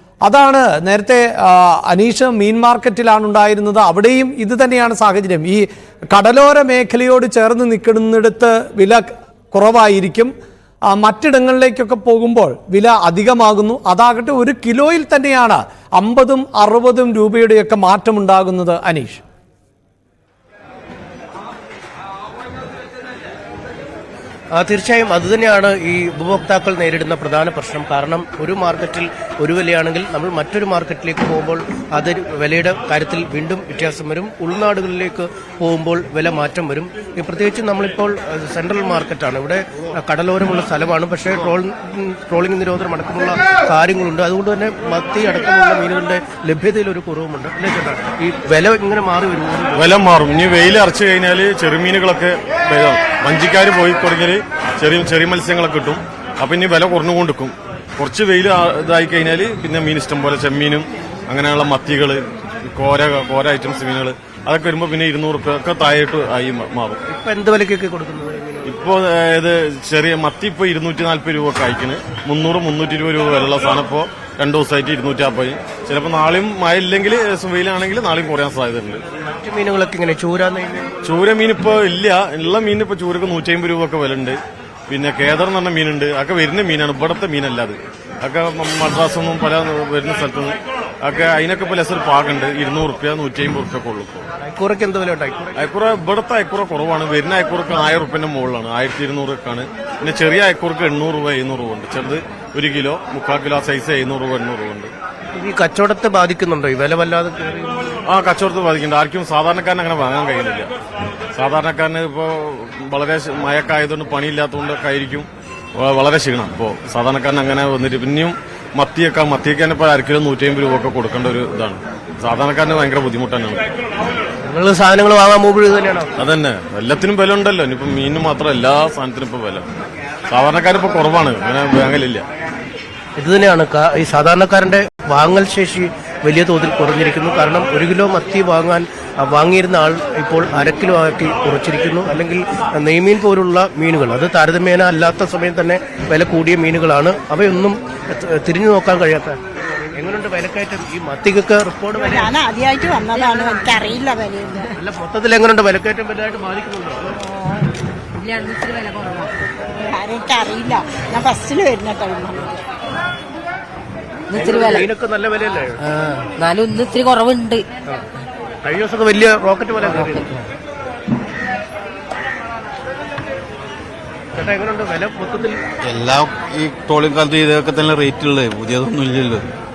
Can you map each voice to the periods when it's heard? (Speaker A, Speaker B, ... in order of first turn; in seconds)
Speaker A: 0.2-10.3, 10.9-19.2
Speaker B: 24.5-49.9, 67.1-68.8, 79.2-80.9, 94.4-95.7, 105.3-108.0, 124.4-126.1, 133.2-149.4, 149.9-152.3, 154.6-157.1, 164.3-165.8, 168.6-170.4, 174.3-175.6
Speaker C: 49.7-67.0, 68.7-79.0, 81.0-94.3, 95.6-104.9, 108.1-110.7, 111.3-123.7, 126.2-129.7, 130.3-132.2
Speaker D: 152.0-154.8, 159.9-162.6
Speaker E: 153.3-153.7, 158.2-159.3, 164.3-164.9, 165.9-167.7
Speaker F: 175.8-179.5